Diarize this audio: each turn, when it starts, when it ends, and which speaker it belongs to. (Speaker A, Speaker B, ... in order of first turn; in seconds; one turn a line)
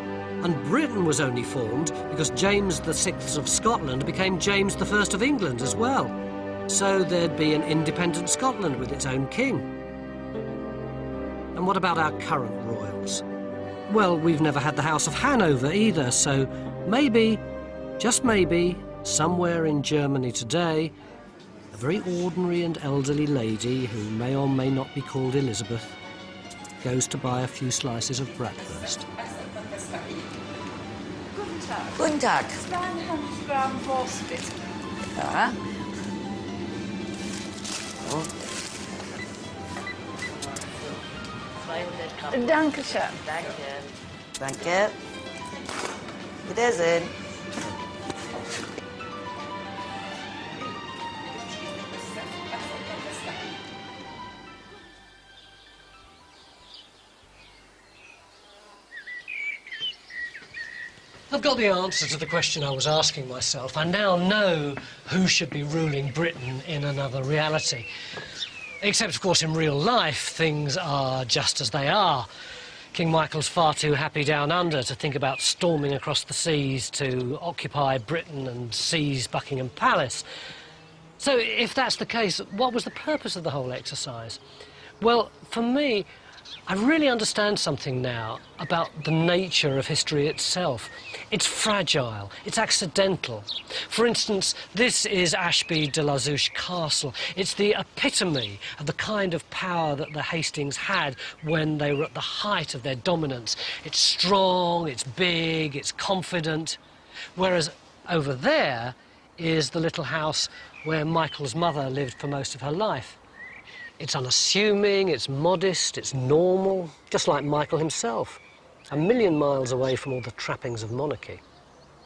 Speaker A: 0.4-6.2
Speaker A: 6.7-9.7
Speaker A: 11.6-13.2
Speaker A: 13.9-17.4
Speaker A: 18.0-20.9
Speaker A: 21.7-26.0
Speaker A: 26.8-29.1
Speaker B: 31.4-32.1
Speaker C: 32.0-32.6
Speaker B: 32.6-34.6
Speaker C: 35.2-35.6
Speaker C: 41.7-42.3
Speaker B: 42.3-43.5
Speaker C: 43.3-43.8
Speaker C: 44.4-44.9
Speaker C: 46.5-47.1
Speaker A: 61.3-67.9
Speaker A: 68.8-72.3
Speaker A: 72.9-80.2
Speaker A: 81.2-84.4
Speaker A: 85.0-86.1
Speaker A: 86.7-106.8
Speaker A: 107.4-113.2
Speaker A: 114.0-121.4